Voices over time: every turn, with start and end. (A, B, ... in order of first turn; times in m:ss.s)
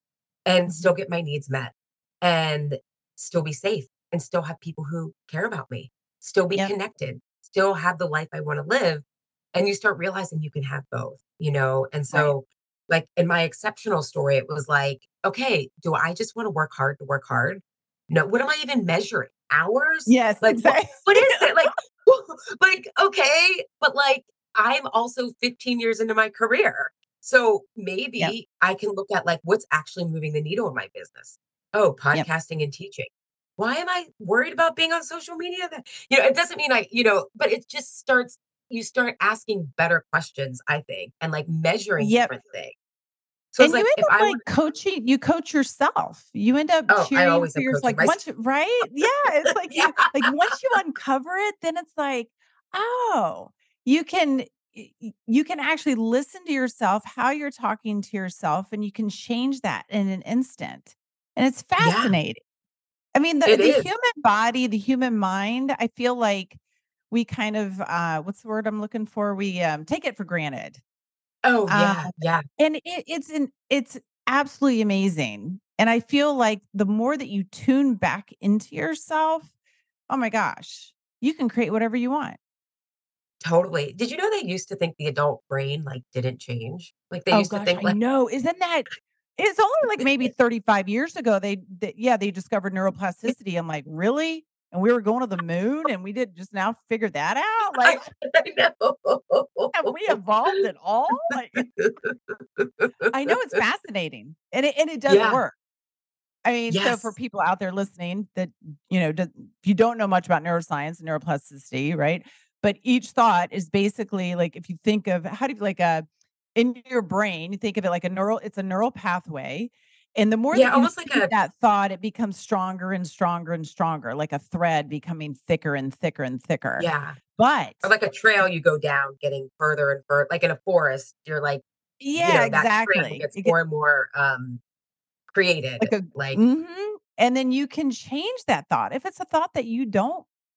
0:00.4-0:42.8 A
0:20.1-0:21.5 B
0:42.0-0:42.3 B
0:43.5-0:44.4 A
0:43.6-1:02.4 B
0:46.9-0:48.2 A
0:49.7-0:50.6 A
1:01.8-1:02.1 A
1:03.1-1:06.6 B
1:03.4-1:03.9 A
1:07.1-1:10.8 B
1:11.4-1:12.4 A
1:11.7-1:19.5 B
1:20.1-1:22.4 B
1:23.4-1:28.0 A
1:27.3-1:38.0 B
1:37.8-1:40.6 A
1:39.7-1:41.6 B
1:41.3-1:43.6 A
1:43.1-1:45.5 B
1:45.1-1:45.4 A
1:46.4-2:07.9 B
1:46.7-1:47.1 A
2:00.5-2:01.3 A
2:06.8-2:07.2 A
2:07.8-2:11.6 A
2:12.0-2:13.5 B
2:12.2-2:14.6 A
2:15.3-2:16.4 A
2:15.8-2:20.3 B